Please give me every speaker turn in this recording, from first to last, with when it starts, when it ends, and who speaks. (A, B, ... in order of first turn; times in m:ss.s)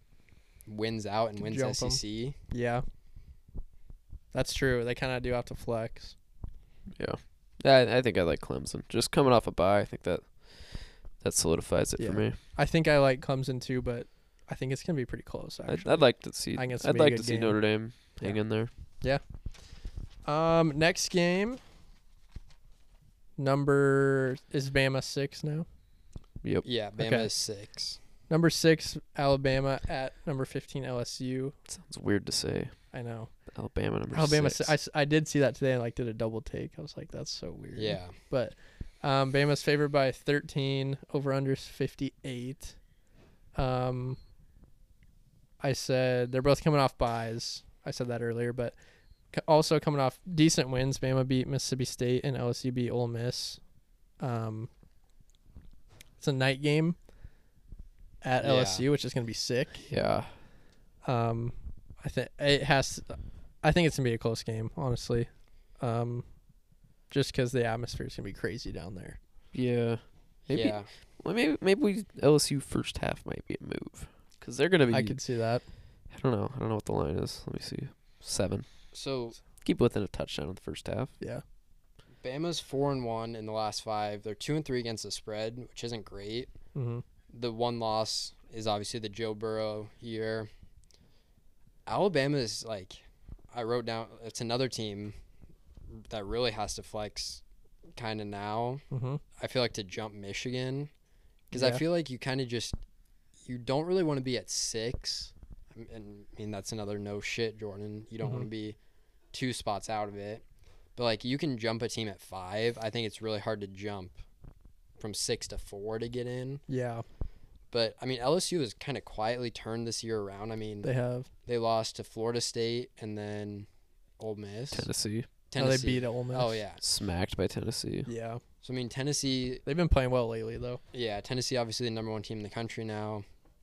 0:00.6-0:02.4 A
0:01.4-0:02.8 B
0:04.3-0:06.1 B
0:06.9-0:12.4 C
0:12.0-0:18.4 B
0:15.7-0:18.7 C
0:20.2-0:21.6 B
0:23.4-0:25.6 B
0:26.6-0:28.0 A
0:27.0-0:27.3 B
0:28.3-0:31.6 B
0:31.7-0:34.7 C
0:32.9-0:33.3 B
0:34.1-0:42.8 B
0:37.7-0:38.1 A
0:43.5-0:44.2 B
0:45.6-0:48.7 B
0:49.3-0:53.6 B
0:54.2-0:54.7 B
0:56.2-0:57.0 B
0:58.2-0:59.8 B
0:58.4-0:58.8 A
0:59.8-1:00.3 C
1:01.0-1:06.3 B
1:07.1-1:09.2 B
1:09.5-1:15.2 C
1:10.5-1:10.9 A
1:14.9-1:15.6 B
1:16.1-1:18.7 C
1:18.9-1:19.4 A
1:19.6-1:21.1 C
1:22.2-1:26.5 A
1:26.7-1:27.0 B
1:27.3-1:30.5 A
1:31.8-1:35.1 A
1:36.1-1:37.4 A
1:38.0-1:38.8 A
1:38.9-1:39.2 B
1:39.4-1:40.9 A
1:41.5-1:42.8 A
1:41.5-1:41.8 B
1:43.4-1:48.8 A
1:49.3-1:50.4 A
1:51.0-1:54.2 A
1:55.0-1:56.6 A
1:56.7-1:57.0 B
1:57.7-2:00.9 A
2:00.8-2:01.3 B
2:01.4-2:03.7 A
2:04.2-2:04.9 A
2:04.7-2:05.3 C
2:05.5-2:06.8 A
2:05.6-2:06.6 B
2:06.8-2:08.1 C
2:08.0-2:08.4 B
2:08.6-2:09.6 A
2:09.6-2:10.8 B
2:10.9-2:13.2 A